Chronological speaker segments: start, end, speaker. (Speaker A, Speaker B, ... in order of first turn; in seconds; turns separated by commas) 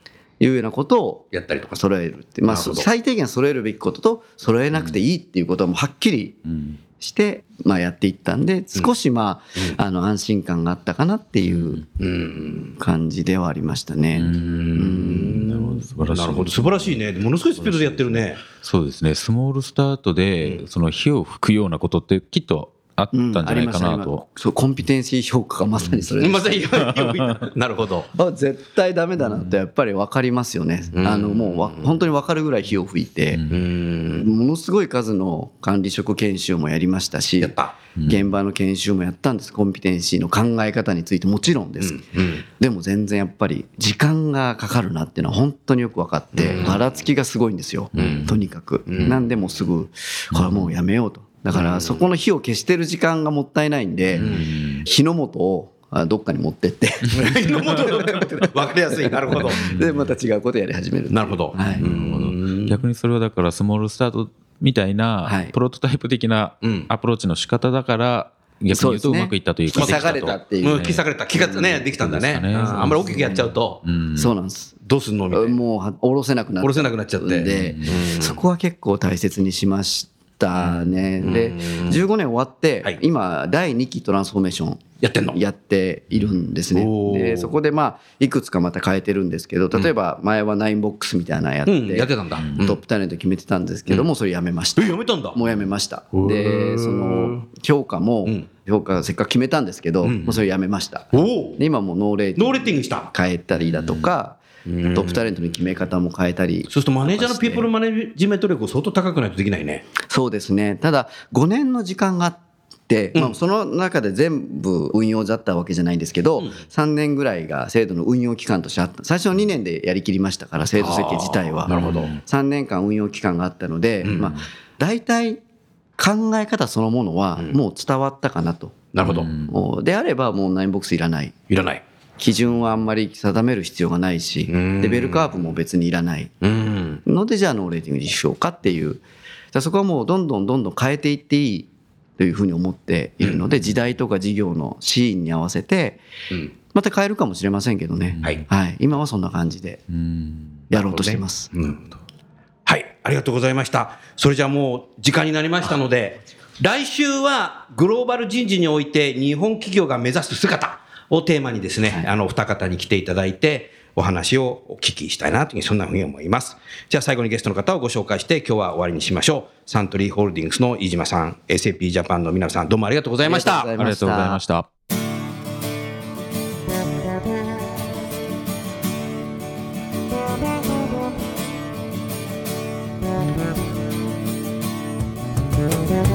Speaker A: 0.4-6.4, Speaker B: 1.3-1.8, Speaker B: 2.5-2.9, Speaker C: 6.5-6.8, Speaker A: 7.0-11.8, Speaker B: 12.0-12.7, Speaker A: 12.8-15.4, Speaker C: 14.1-17.0, Speaker B: 14.2-18.4, Speaker C: 17.6-24.2, Speaker A: 23.1-27.2, Speaker B: 26.2-28.1, Speaker C: 26.9-27.4, Speaker A: 28.1-33.4, Speaker B: 30.9-31.9, Speaker C: 33.3-33.6, Speaker B: 33.5-34.3, Speaker A: 34.1-42.0, Speaker B: 37.4-37.8, Speaker C: 38.0-38.2, Speaker B: 41.8-42.4, Speaker A: 42.6-61.9, Speaker B: 46.3-46.8, Speaker C: 47.9-48.4, Speaker B: 48.0-48.3, Speaker B: 48.9-49.2, Speaker C: 50.3-50.8, Speaker B: 51.5-52.0, Speaker C: 54.1-54.9, Speaker B: 54.2-54.5, Speaker B: 57.1-59.7, Speaker C: 59.3-60.1, Speaker B: 61.1-62.8, Speaker C: 61.7-71.0, Speaker A: 65.2-65.5, Speaker B: 66.6-66.9, Speaker A: 68.7-71.8, Speaker B: 69.7-73.8, Speaker C: 71.9-74.3, Speaker A: 72.7-73.5, Speaker A: 74.1-74.7, Speaker B: 74.8-75.6, Speaker A: 75.3-104.4, Speaker B: 76.6-78.4, Speaker C: 77.5-77.9, Speaker B: 80.5-82.0, Speaker B: 85.0-85.4, Speaker B: 86.7-87.5, Speaker B: 91.7-92.8, Speaker B: 94.8-95.4, Speaker B: 96.1-97.4, Speaker B: 100.0-100.4, Speaker B: 101.1-101.6, Speaker B: 102.4-103.1, Speaker B: 104.7-105.3, Speaker A: 104.9-107.7, Speaker B: 106.7-109.9, Speaker A: 110.0-125.4, Speaker B: 120.8-122.1, Speaker C: 121.7-122.2, Speaker B: 124.0-124.3, Speaker A: 126.0-131.4, Speaker B: 128.9-129.3, Speaker C: 129.0-129.5, Speaker B: 131.5-131.8, Speaker A: 132.2-136.3, Speaker B: 134.5-135.5, Speaker B: 136.4-137.0, Speaker A: 137.0-146.0, Speaker A: 146.7-149.8, Speaker C: 148.2-148.4, Speaker C: 149.9-150.6, Speaker A: 150.7-151.5, Speaker B: 150.7-151.9, Speaker B: 152.7-173.7, Speaker A: 173.2-174.4, Speaker C: 173.8-174.7